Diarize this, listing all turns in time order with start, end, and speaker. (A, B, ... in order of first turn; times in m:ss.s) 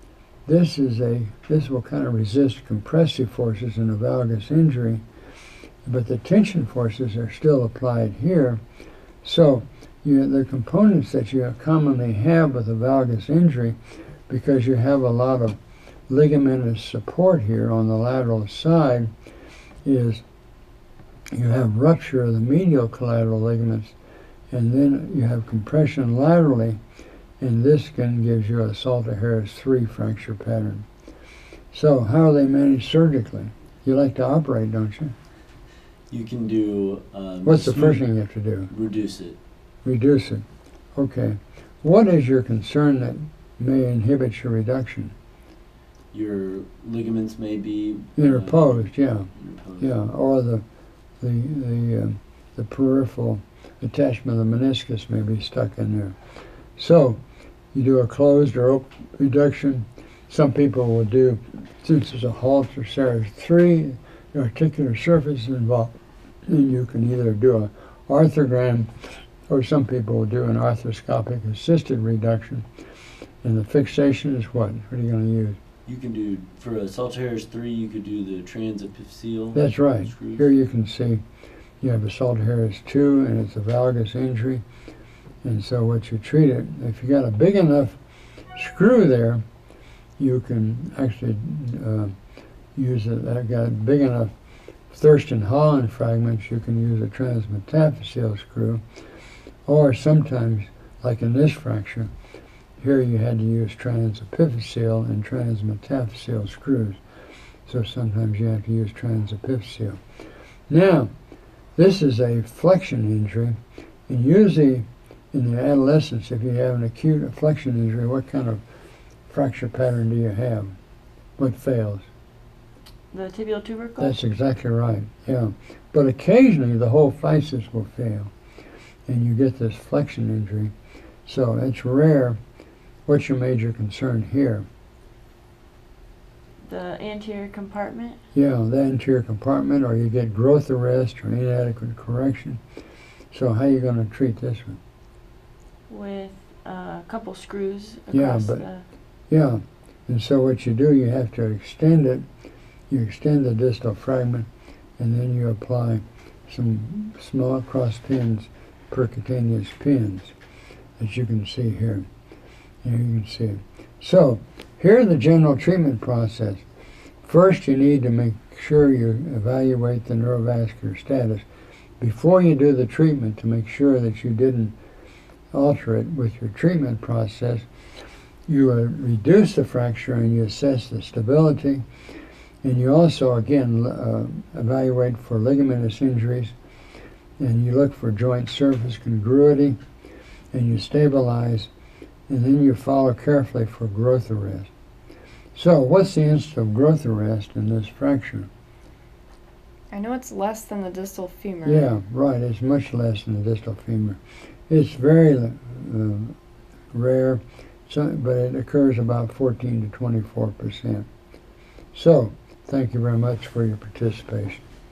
0:00.4-0:05.0 A
0:05.8-0:08.6 A
0:09.2-0:13.8 A
0:14.3-0:15.6 A
0:16.1-0:19.1 A
0:19.8-0:20.2 A
0:21.3-0:23.9 A
0:24.5-0:26.8 A
0:27.4-0:30.8 A
0:31.7-0:35.1 A
0:36.1-0:38.0 B
0:37.4-0:38.7 A
0:38.7-0:39.4 B
0:39.8-0:40.4 A
0:40.9-0:45.1 A
0:46.1-0:49.9 B
0:48.2-0:50.6 A
0:51.2-0:56.2 A
0:56.8-0:57.2 A
0:57.7-1:12.6 A
1:13.4-1:15.6 A
1:15.8-1:20.4 B
1:19.5-1:21.2 A
1:21.8-1:24.6 A
1:25.4-1:28.0 A
1:28.6-1:29.4 A
1:30.2-1:32.1 A
1:32.7-1:34.3 A
1:34.9-1:38.8 A
1:39.6-1:42.1 A
1:42.8-1:47.0 A
1:47.6-1:50.0 A
1:50.7-1:51.1 A
1:51.8-1:58.6 A
1:59.3-2:00.8 A
2:01.4-2:02.1 A
2:03.1-2:04.2 C
2:04.0-2:08.3 A
2:09.1-2:10.7 A
2:11.2-2:12.4 A
2:13.0-2:14.6 A
2:16.6-2:18.2 C
2:18.3-2:22.6 A
2:23.3-2:24.8 A
2:25.9-2:28.8 C
2:28.1-2:28.6 A
2:29.3-2:32.2 A
2:32.9-2:34.5 A
2:35.0-2:40.3 A
2:41.0-2:42.1 A
2:42.8-2:46.6 A
2:47.2-2:51.4 A
2:52.0-2:54.7 A
2:55.5-2:57.6 A
2:58.5-3:01.8 A
3:02.6-3:06.5 A
3:07.4-3:09.8 A
3:10.5-3:11.7 A
3:12.3-3:14.7 A
3:15.5-3:18.5 A
3:19.9-3:21.9 D
3:21.6-3:26.4 A
3:26.9-3:31.1 A
3:31.9-3:34.6 A